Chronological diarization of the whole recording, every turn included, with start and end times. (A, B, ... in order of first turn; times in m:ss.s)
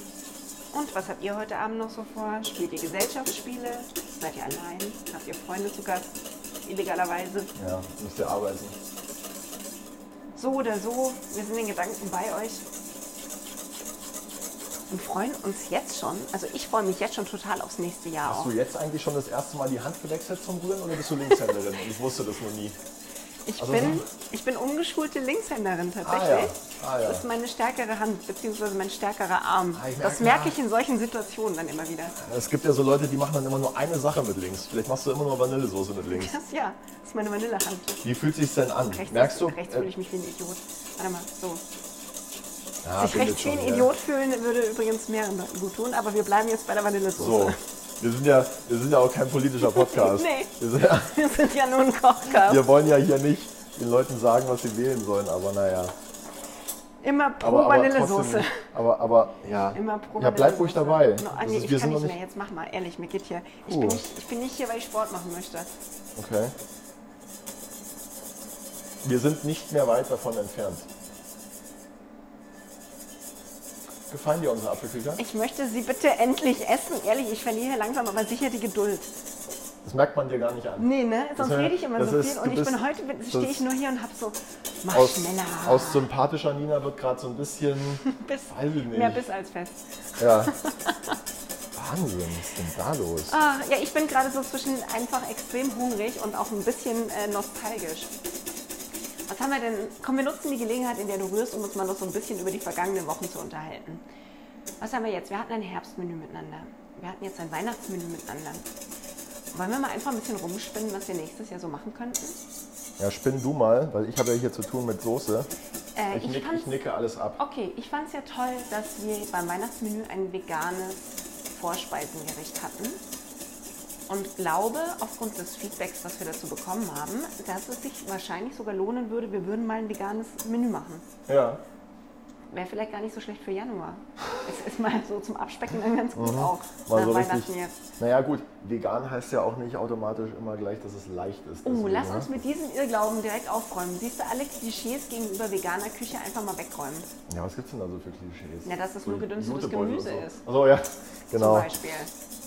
0:00.7-0:07.5 A
0:07.6-0:08.8 B
0:10.4-0:12.6 A
0:14.9-0:18.5 A
0:18.2-0:22.8 B
0:23.5-0:32.2 A
0:23.6-0:24.1 B
0:26.0-0:27.2 B
0:29.7-0:30.6 B
0:32.2-0:36.4 B
0:36.1-0:38.0 A
0:38.0-0:39.9 B
0:38.9-0:41.6 A
0:42.8-0:43.9 B
0:43.0-0:47.6 A
0:47.2-0:51.2 B
0:49.6-0:52.7 A
0:52.3-0:56.0 B
0:57.0-0:58.7 A
0:57.4-1:02.2 B
0:59.7-1:05.7 A
1:03.7-1:04.0 B
1:06.2-1:06.6 B
1:09.0-1:10.9 B
1:14.1-1:15.2 B
1:15.2-1:19.1 A
1:19.8-1:23.6 B
1:20.8-1:26.0 A
1:24.9-1:29.2 B
1:28.0-1:31.2 A
1:30.2-1:30.5 B
1:31.7-1:33.4 B
1:33.3-1:38.1 A
1:39.3-1:44.0 A
1:44.8-1:48.7 A
1:49.5-1:52.4 A
1:53.0-1:55.5 B
1:56.0-1:56.8 A
1:56.1-1:57.4 B
1:57.4-2:03.0 A
2:04.1-2:11.0 A
2:11.3-2:11.6 B
2:12.5-2:17.8 A
2:16.2-2:22.4 B
2:21.6-2:27.1 A
2:27.3-2:31.7 B
2:28.6-2:30.4 A
2:31.3-2:32.1 A